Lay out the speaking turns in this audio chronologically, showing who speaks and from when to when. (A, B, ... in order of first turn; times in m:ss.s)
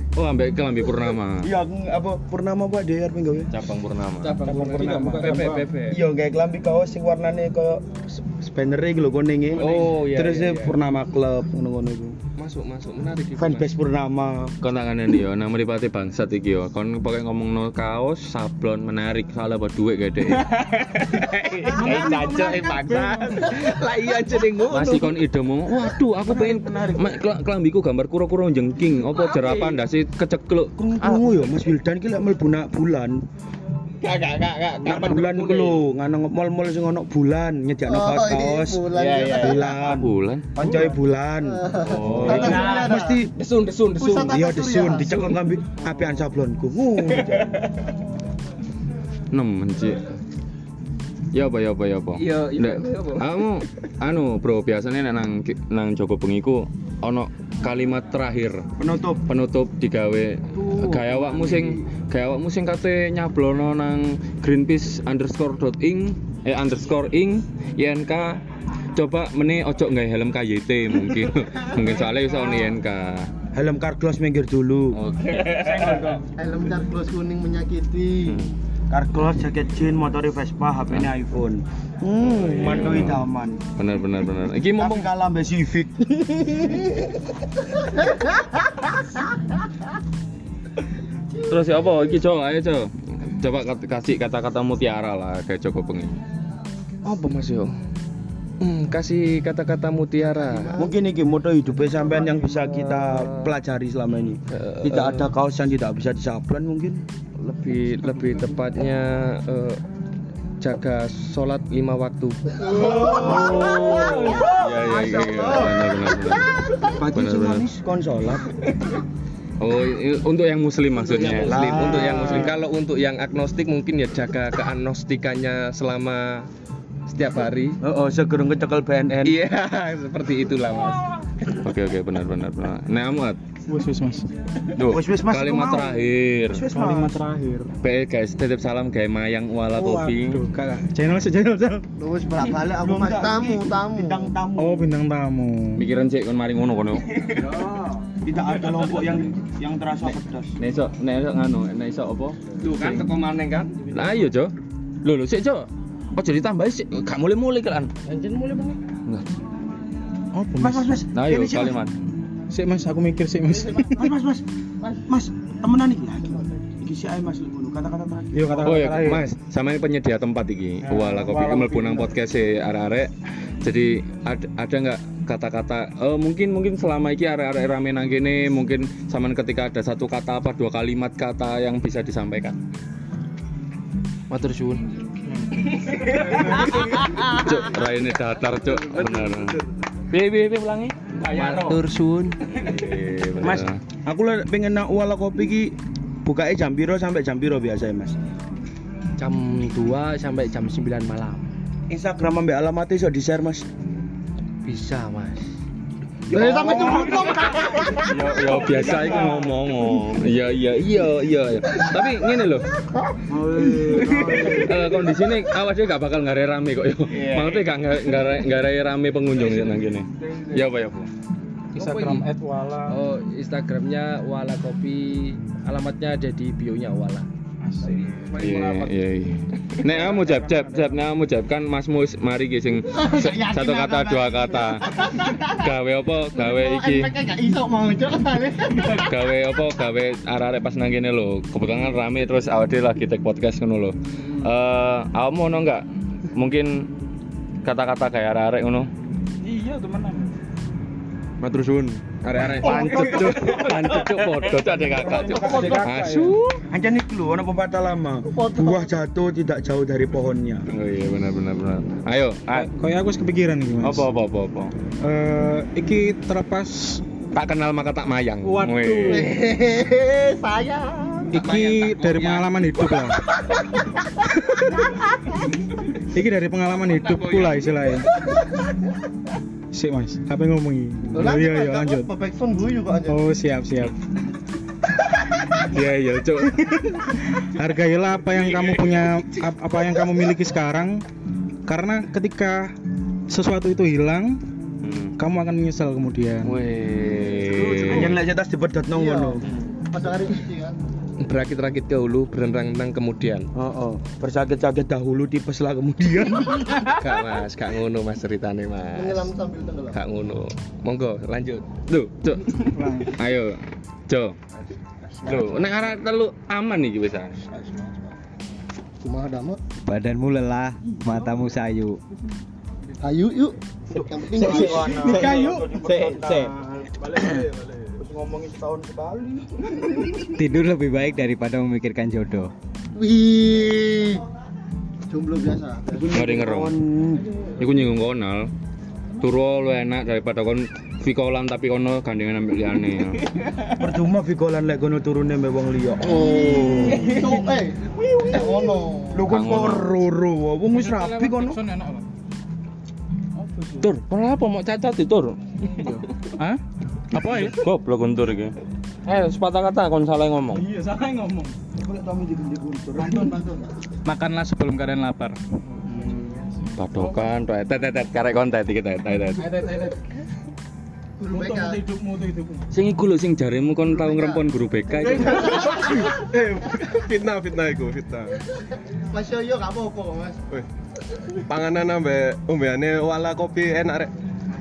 0:00.2-0:01.5 A
0:01.4-0:03.5 B
0:03.5-0:04.3 A
0:04.2-0:06.0 C
0:04.4-0:12.2 B
0:05.1-0:05.7 D
0:09.5-0:10.8 C
0:12.4-0:13.7 C
0:13.4-0:14.6 B
0:14.6-0:20.4 A
0:20.4-0:25.2 C
0:21.8-0:23.5 D
0:21.9-0:22.2 B
0:24.7-0:30.7 A
0:26.2-0:27.2 B
0:29.0-0:29.8 C
0:30.8-0:33.2 B
0:31.0-0:31.4 C
0:34.0-0:35.8 C
0:34.8-0:43.3 B
0:37.9-0:39.9 E
0:38.9-0:39.7 C
0:39.9-0:40.5 A
0:40.6-0:43.2 E
0:41.8-0:42.7 A
0:42.2-0:44.4 C
0:44.0-0:45.4 E
0:44.2-0:47.5 B
0:47.0-0:47.6 C
0:49.3-0:50.1 A
0:51.3-0:58.6 A
0:52.2-0:53.3 C
0:58.8-0:59.2 B
0:59.3-1:08.4 A
1:00.5-1:01.8 C
1:09.0-1:13.3 A
1:13.5-1:15.0 B
1:15.0-1:16.1 A
1:15.4-1:16.1 C
1:15.6-1:16.2 B
1:16.4-1:18.5 E
1:18.9-1:23.6 B
1:22.4-1:23.2 A
1:23.8-1:25.1 A
1:24.8-1:26.9 B
1:31.5-1:36.2 A
1:37.0-1:37.7 C
1:38.6-1:40.7 C
1:40.2-1:41.0 E
1:40.8-1:47.0 B
1:42.5-1:43.5 C
1:44.5-1:45.3 C
1:47.4-1:49.8 C
1:48.1-1:48.4 D
1:50.6-1:54.5 C
1:52.6-1:54.2 E
1:53.0-1:54.5 D
1:53.1-1:57.6 A
1:53.2-1:53.7 B
1:55.3-1:56.0 E
1:56.9-1:58.4 B
1:59.6-2:01.8 A
2:01.0-2:06.5 C
2:01.4-2:02.5 B
2:07.1-2:07.8 C
2:07.8-2:09.4 B
2:09.2-2:11.1 C
2:11.6-2:13.4 A
2:13.7-2:14.2 D
2:14.8-2:16.6 A
2:14.8-2:17.2 B
2:16.7-2:17.7 D
2:17.8-2:20.4 A
2:19.7-2:21.8 D
2:22.0-2:24.4 E
2:22.7-2:24.9 B
2:24.6-2:25.8 D
2:25.8-2:27.3 A
2:27.4-2:27.8 C
2:27.5-2:30.6 B
2:30.6-2:33.0 A
2:32.6-2:34.1 C
2:33.9-2:37.9 A
2:38.1-2:38.8 C
2:40.3-2:40.9 D
2:40.6-2:41.8 B
2:41.1-2:41.9 A
2:42.5-2:44.1 D
2:43.8-2:49.0 B
2:48.3-2:49.3 D
2:48.6-2:53.1 A
2:50.8-2:52.2 D
2:53.6-3:02.6 A
3:04.3-3:04.8 C
3:05.3-3:06.7 D
3:06.1-3:11.1 A
3:06.4-3:07.1 C
3:11.2-3:12.4 C
3:11.2-3:11.8 D
3:12.6-3:13.8 A
3:13.4-3:18.2 B
3:19.2-3:21.4 C
3:21.9-3:23.7 B
3:24.7-3:25.4 C
3:26.3-3:27.6 B
3:26.3-3:28.4 E
3:28.1-3:32.7 A
3:28.7-3:29.3 C
3:33.3-3:34.8 B
3:34.2-3:41.1 A
3:37.1-3:38.2 C
3:39.4-3:39.8 C
3:41.7-3:42.3 C
3:41.8-3:43.0 D
3:42.9-3:47.3 C
3:47.6-3:48.8 D
3:47.9-3:48.8 C
3:48.4-3:57.1 A
3:49.9-3:50.9 D
3:52.9-3:55.7 E
3:56.4-3:59.1 E
3:59.0-4:06.7 A
4:07.6-4:08.9 A
4:09.4-4:10.3 D
4:11.4-4:16.6 A
4:12.3-4:14.4 D
4:14.9-4:16.2 B
4:15.0-4:16.4 D
4:16.7-4:20.7 B
4:18.3-4:18.9 E
4:20.7-4:22.7 A
4:22.5-4:24.1 D
4:23.8-4:24.7 A
4:25.0-4:27.0 D
4:27.3-4:29.4 A
4:28.4-4:29.4 D
4:29.1-4:31.4 E
4:31.3-4:33.2 D
4:31.4-4:32.5 C
4:34.5-4:34.8 D
4:35.9-4:38.1 D
4:36.9-4:37.9 C
4:39.7-4:42.1 D
4:41.1-4:43.3 E
4:43.1-4:43.9 D
4:45.6-4:51.0 D
4:51.7-4:52.7 D
4:53.3-4:54.4 D
4:54.8-4:55.1 A
4:55.2-4:56.6 D
4:56.4-4:58.2 A
4:57.5-4:57.9 D
4:57.8-4:59.4 B
4:58.9-5:00.8 E
5:01.2-5:03.5 C
5:03.6-5:06.8 B
5:07.0-5:09.3 C
5:08.9-5:10.0 E
5:09.9-5:11.7 C
5:11.9-5:14.4 A
5:12.7-5:13.2 D
5:15.2-5:17.4 A
5:19.0-5:19.6 E
5:19.9-5:22.0 F
5:23.0-5:25.2 E
5:24.3-5:26.6 B
5:24.4-5:26.5 F
5:25.0-5:25.8 D
5:27.0-5:27.9 G
5:28.0-5:30.1 B
5:30.3-5:32.5 F
5:33.0-5:34.2 E
5:35.1-5:36.1 E
5:35.9-5:37.3 B
5:36.1-5:36.8 A
5:37.6-5:38.5 A
5:39.2-5:43.3 A
5:43.8-5:47.1 B
5:46.1-5:49.3 E
5:49.1-5:51.6 B
5:49.3-5:50.0 A
5:50.7-5:52.1 D
5:53.4-5:53.9 D
5:53.8-5:56.0 A
5:55.7-5:56.6 D
5:57.1-5:57.6 D
5:57.2-6:00.7 A
6:00.5-6:01.5 D
6:01.8-6:03.4 B
6:03.0-6:03.7 D
6:04.0-6:05.4 F
6:04.3-6:05.1 D
6:05.8-6:07.2 D
6:06.8-6:09.5 A
6:09.4-6:10.0 D
6:11.2-6:12.7 D
6:11.3-6:11.8 E
6:12.7-6:16.0 A
6:13.9-6:14.4 E
6:15.0-6:16.2 D
6:15.0-6:16.1 E
6:16.2-6:18.4 G
6:19.1-6:20.4 E
6:21.5-6:24.1 G